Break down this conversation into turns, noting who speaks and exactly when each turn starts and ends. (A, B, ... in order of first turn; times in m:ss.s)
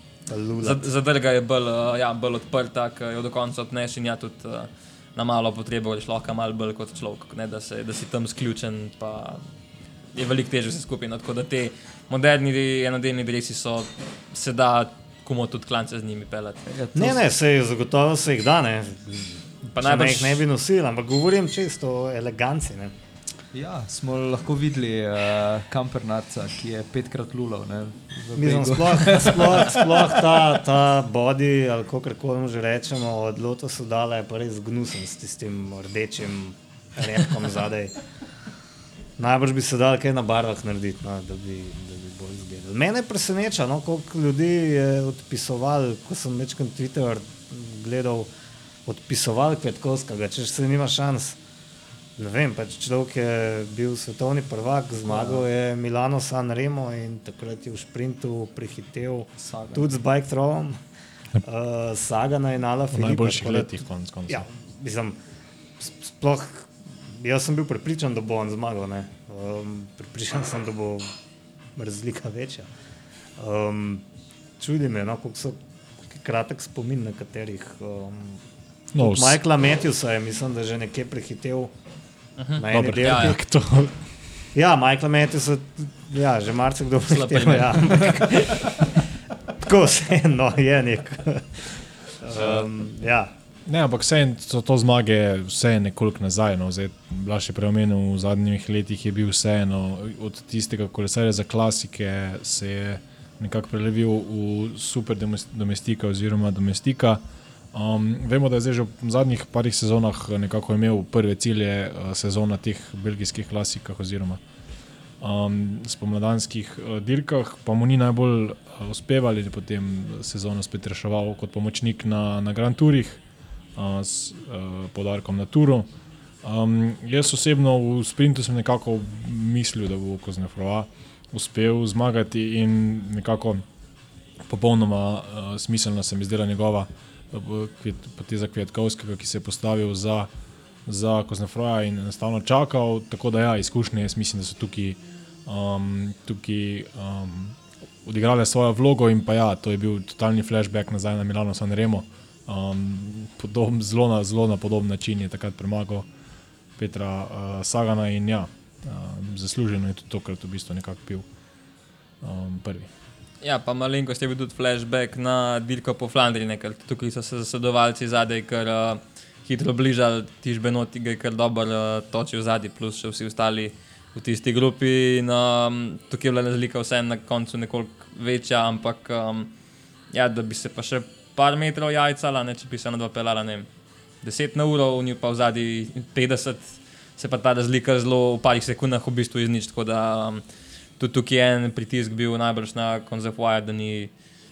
0:00.3-0:00.9 A
0:00.6-0:09.4 B
0:10.1-0:16.7 B
0:16.7-0:17.2 C
0:16.9-0:22.9 A
0:19.7-0:20.4 B
0:23.5-0:30.0 C
0:28.3-0:38.0 A
0:39.2-0:48.3 A
0:48.8-0:51.4 A
0:52.2-1:00.8 A
0:55.0-0:55.4 C
0:59.4-0:59.9 C
1:01.4-1:03.7 A
1:02.9-1:04.4 D
1:04.3-1:05.2 A
1:05.8-1:11.1 A
1:11.7-1:12.7 A
1:13.4-1:14.0 A
1:14.6-1:15.6 A
1:16.1-1:18.4 A
1:18.9-1:19.4 D
1:19.0-1:21.7 A
1:22.4-1:23.4 B
1:22.5-1:23.4 A
1:22.7-1:24.1 D
1:24.5-1:29.0 A
1:27.0-1:28.4 B
1:29.6-1:33.3 A
1:33.6-1:47.2 D
1:47.7-1:54.4 D
1:55.2-2:03.2 D
2:03.8-2:05.9 D
2:06.4-2:13.6 D
2:14.4-2:20.3 D
2:20.8-2:36.1 D
2:36.8-2:41.2 D
2:42.2-2:42.9 D
2:43.4-2:59.5 B
3:00.1-3:03.7 B
3:04.2-3:10.4 B
3:11.0-3:14.1 B